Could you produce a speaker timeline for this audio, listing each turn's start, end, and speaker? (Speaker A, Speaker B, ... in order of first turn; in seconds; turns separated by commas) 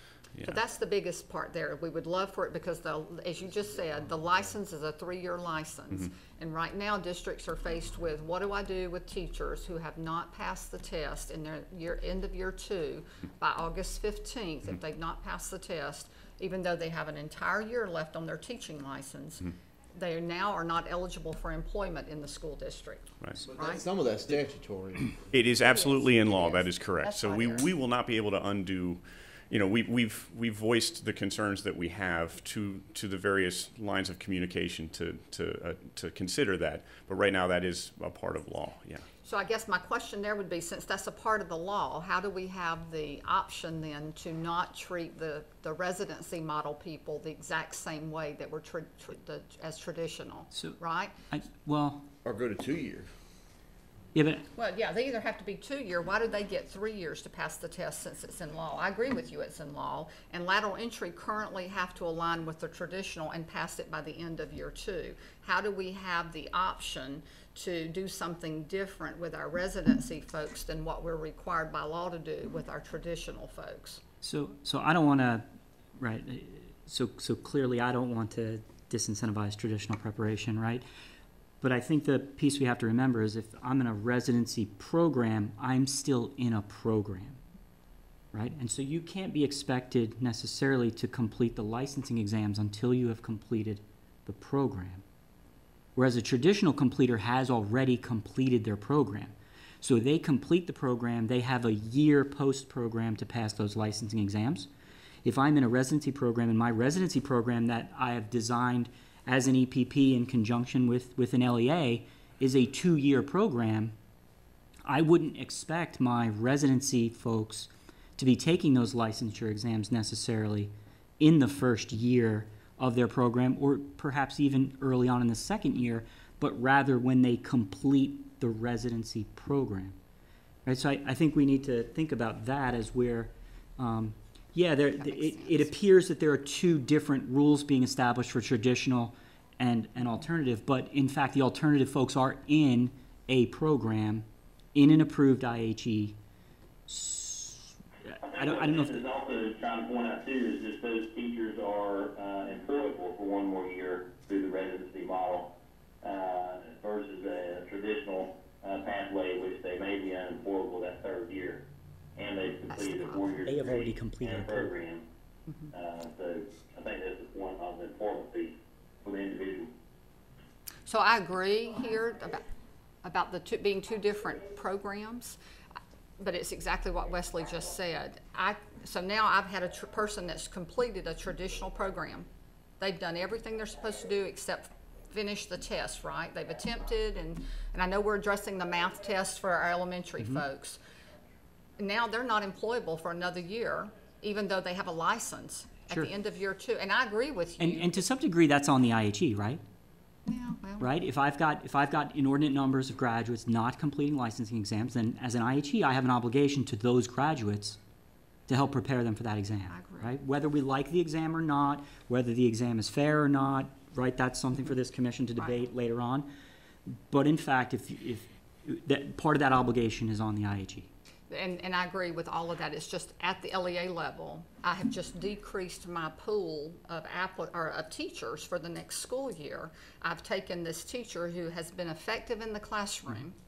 Speaker A: 0.4-23.8, Speaker B: 23.4-25.3, Speaker C: 25.3-39.0, Speaker A: 25.7-27.7, Speaker A: 39.2-51.1, Speaker D: 50.5-50.8, Speaker D: 51.3-52.1, Speaker B: 52.2-53.1, Speaker D: 54.1-54.4, Speaker A: 54.5-74.0, Speaker D: 74.2-80.8, Speaker D: 81.6-87.4, Speaker D: 88.3-95.0, Speaker D: 95.9-104.7, Speaker D: 105.2-113.9, Speaker D: 114.8-129.9, Speaker D: 130.6-146.2, Speaker A: 135.0-135.7, Speaker D: 146.9-147.7, Speaker E: 148.2-161.6, Speaker D: 148.3-149.0, Speaker E: 162.2-165.0, Speaker A: 162.7-163.2, Speaker D: 163.4-164.7, Speaker E: 165.7-169.7, Speaker A: 170.9-172.4, Speaker A: 173.0-175.4, Speaker A: 176.2-182.3, Speaker A: 182.8-190.8, Speaker A: 191.8-198.0, Speaker D: 197.6-199.6, Speaker A: 200.3-200.9, Speaker D: 200.8-207.8, Speaker D: 208.5-216.3, Speaker A: 209.7-210.1, Speaker D: 217.1-220.9, Speaker A: 221.3-233.3